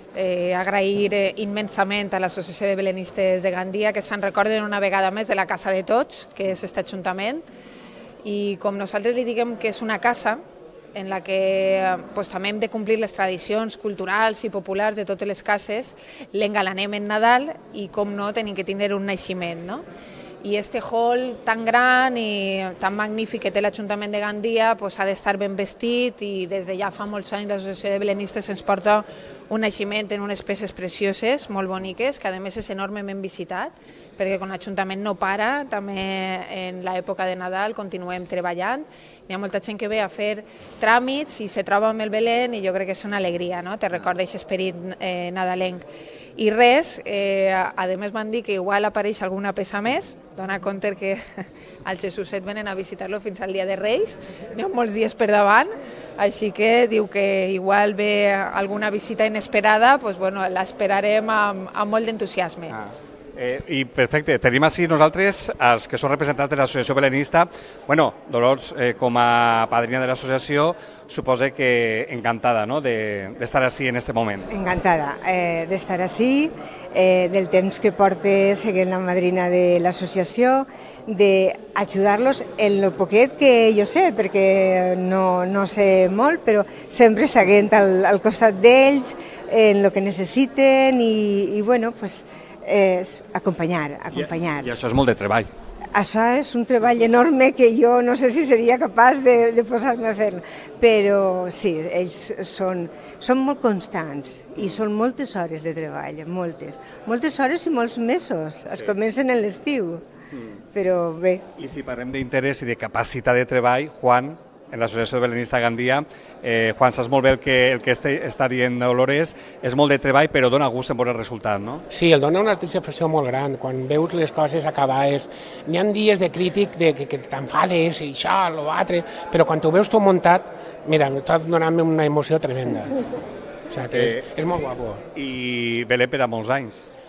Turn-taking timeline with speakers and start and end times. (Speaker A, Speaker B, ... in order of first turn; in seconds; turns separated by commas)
Speaker A: 0.1-7.4, Speaker A: 8.2-10.4, Speaker A: 10.9-19.8, Speaker A: 20.4-62.7, Speaker B: 62.7-74.5, Speaker C: 74.5-94.7, Speaker B: 94.1-95.5, Speaker C: 95.9-110.0, Speaker C: 110.7-111.4, Speaker B: 111.6-121.8, Speaker D: 121.9-132.9, Speaker D: 133.7-135.0, Speaker B: 133.9-134.2, Speaker B: 135.1-136.9